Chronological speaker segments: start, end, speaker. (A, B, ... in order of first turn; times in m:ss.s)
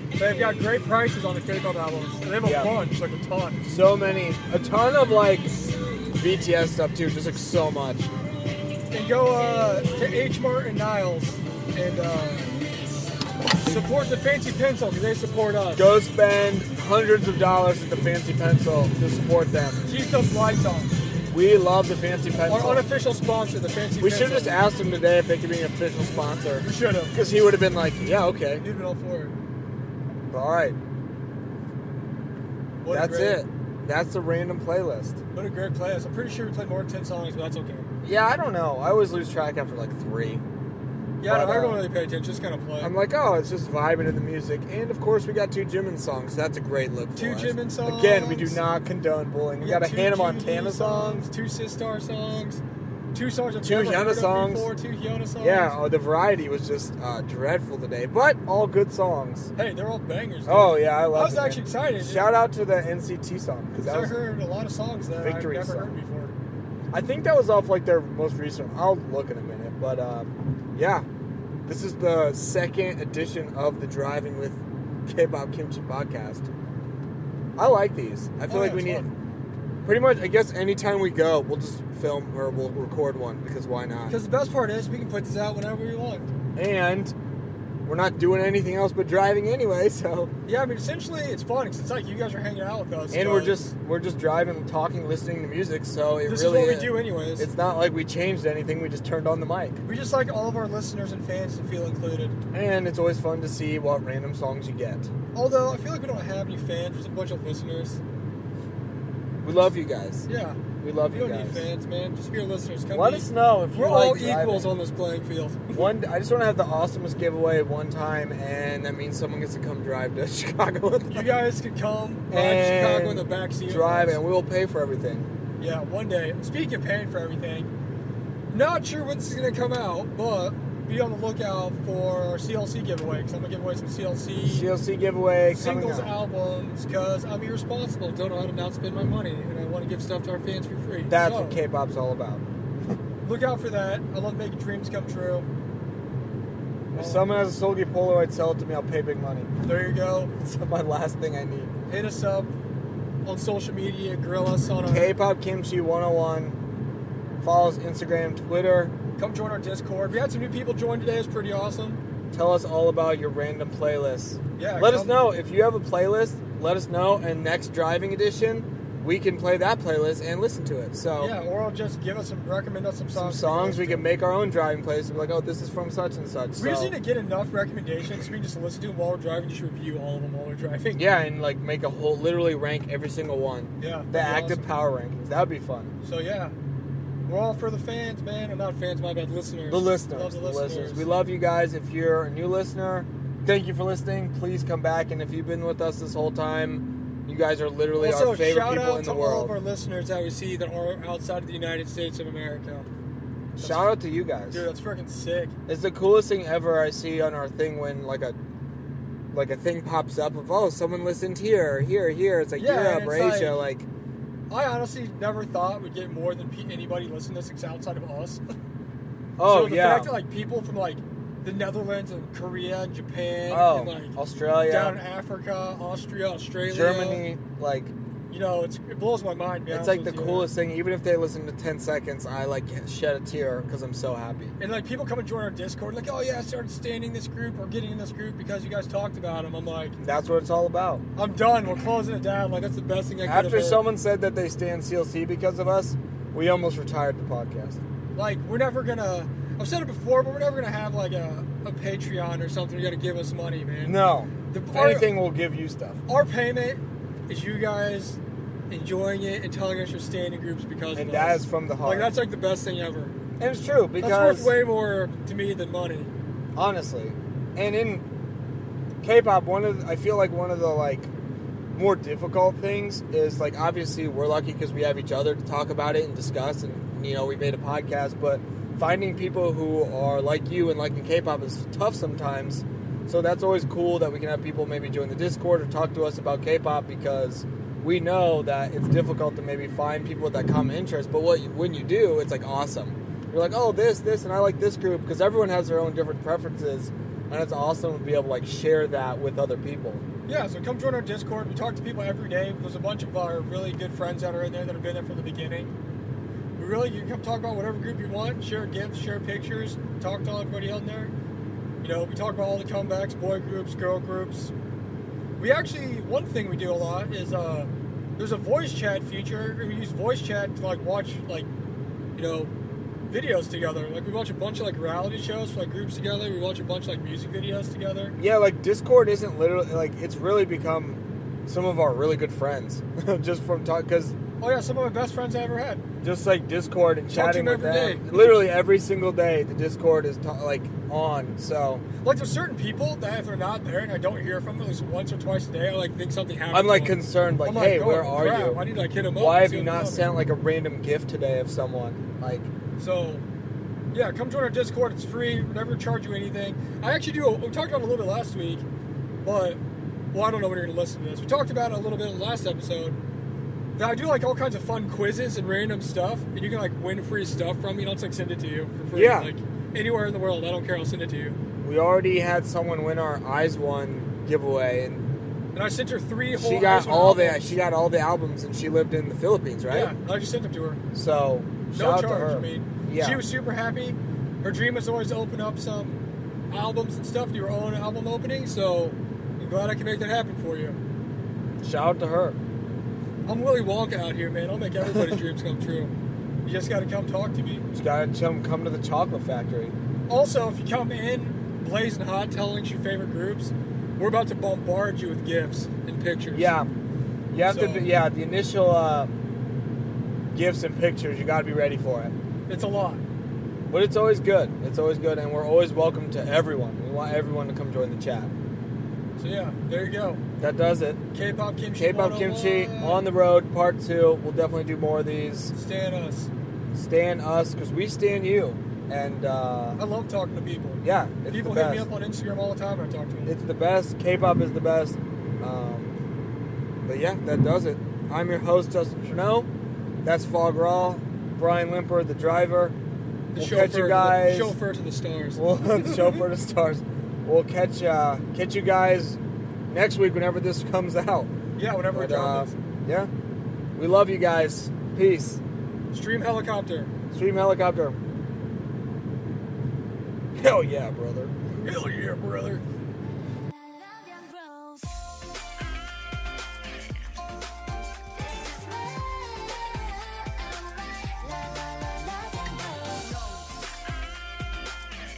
0:00.2-0:03.6 A
0:02.4-0:02.7 B
0:03.6-0:05.5 B
0:06.2-0:08.1 B
0:08.9-0:12.5 A
0:13.6-0:16.0 A
0:15.8-0:19.8 B
0:19.8-0:20.9 A
0:21.3-0:22.8 B
0:22.5-0:24.5 A
0:24.0-0:28.6 B
0:26.6-0:27.2 A
0:28.6-0:29.3 A
0:30.3-0:30.8 B
0:32.8-0:33.4 A
0:32.9-0:35.2 B
0:35.3-0:37.9 A
0:38.0-0:40.4 B
0:41.2-0:42.9 A
0:41.2-0:41.8 B
0:42.8-0:51.3 B
0:47.1-0:48.6 A
0:49.6-0:52.6 A
0:53.1-0:55.8 A
0:53.6-0:54.7 B
0:55.4-0:59.5 B
0:59.6-1:02.3 A
1:00.5-1:04.2 B
1:03.8-1:06.3 A
1:05.1-1:05.9 B
1:06.9-1:11.0 B
1:11.6-1:16.5 B
1:17.6-1:19.1 B
1:18.5-1:19.1 A
1:19.8-1:24.2 B
1:24.1-1:26.3 A
1:26.6-1:27.1 B
1:27.8-1:30.3 B
1:30.5-1:33.6 A
1:33.1-1:39.8 B
1:36.2-1:37.5 A
1:39.8-1:42.4 A
1:42.5-1:45.1 B
1:45.3-1:48.0 A
1:49.4-1:50.3 B
1:50.3-1:55.9 A
1:50.8-1:51.7 B
1:52.9-1:54.7 B
1:55.7-2:01.3 B
2:01.1-2:04.2 A
2:02.3-2:05.3 B
2:05.6-2:07.7 A
2:08.5-2:14.7 A
2:14.4-2:16.1 B
2:15.5-2:21.6 A
2:21.1-2:22.4 B
2:23.2-2:25.4 A
2:26.9-2:29.5 B
2:26.9-2:27.2 A
2:29.6-2:30.3 A
2:30.4-2:31.7 B
2:31.9-2:32.5 A
2:33.2-2:35.1 A
2:34.9-2:36.6 B
2:37.4-2:38.9 B
2:39.2-2:42.0 A
2:42.3-2:51.3 B
2:44.6-2:45.2 A
2:51.2-2:54.0 A
2:53.1-2:56.9 B
2:56.6-3:01.0 A
3:00.9-3:05.9 B
3:03.8-3:04.7 A
3:06.0-3:06.5 A
3:07.3-3:11.0 A
3:09.7-3:19.5 B
3:18.0-3:22.9 A
3:23.6-3:24.6 B
3:23.6-3:23.9 A
3:24.5-3:25.5 A
3:25.7-3:28.4 B
3:29.3-3:33.9 B
3:32.6-3:33.6 A
3:34.5-3:38.4 A
3:39.4-3:40.1 B
3:39.4-3:47.2 A
3:43.5-3:45.0 B
3:46.7-3:47.9 B
3:48.3-3:50.5 A
3:49.7-3:54.5 B
3:54.6-4:00.0 A
4:00.0-4:01.0 B
4:01.2-4:03.8 A
4:03.2-4:07.8 B
4:08.1-4:15.1 A
4:13.8-4:16.0 B
4:16.1-4:18.2 A
4:18.7-4:23.1 A
4:20.9-4:22.1 B
4:23.4-4:24.5 B
4:24.0-4:26.1 A
4:26.6-4:28.0 B
4:29.0-4:31.1 B
4:31.7-5:00.0 B
5:00.3-5:05.7 A
5:06.6-5:11.1 A
5:11.8-5:14.5 A
5:15.4-5:21.5 A
5:22.2-5:22.5 A
5:23.1-5:28.2 A
5:28.2-5:34.2 B
5:34.4-5:35.8 A
5:36.0-5:41.8 B
5:37.1-5:38.4 A
5:42.0-5:50.1 A
5:46.5-5:48.6 B
5:49.1-5:52.5 B
5:52.8-5:53.2 A
5:53.9-5:58.6 A
5:59.2-5:59.6 A
6:00.1-6:03.0 A
6:03.8-6:11.4 A
6:08.9-6:09.3 B
6:11.6-6:15.1 B
6:15.5-6:17.6 A
6:16.3-6:19.9 B
6:19.7-6:20.8 A
6:20.9-6:23.2 B
6:21.7-6:30.8 A
6:31.6-6:32.4 B
6:33.3-6:35.9 A
6:36.4-6:37.6 A
6:37.7-6:39.7 B
6:40.1-6:46.5 A
6:46.3-6:46.7 B
6:47.3-6:49.1 B
6:47.4-6:47.8 A
6:50.3-6:52.1 B
6:52.5-6:53.0 A
6:53.7-6:58.3 B
6:59.2-7:00.2 A
7:00.4-7:01.0 B
7:01.1-7:03.0 A
7:01.8-7:05.5 B
7:05.5-7:06.3 A
7:06.7-7:09.8 B
7:09.8-7:13.3 A
7:10.8-7:11.9 B
7:13.3-7:16.0 B
7:16.8-7:19.5 B
7:20.0-7:22.7 B
7:23.3-7:26.2 A
7:23.4-7:24.6 B
7:25.4-7:29.2 B
7:29.7-7:31.3 B
7:31.6-7:32.5 A
7:31.9-7:33.1 B
7:33.8-7:35.4 B
7:35.9-7:36.9 A
7:37.1-7:38.0 B
7:40.3-7:41.5 B
7:41.6-7:42.6 A
7:43.5-7:45.1 C
7:48.2-7:53.5 C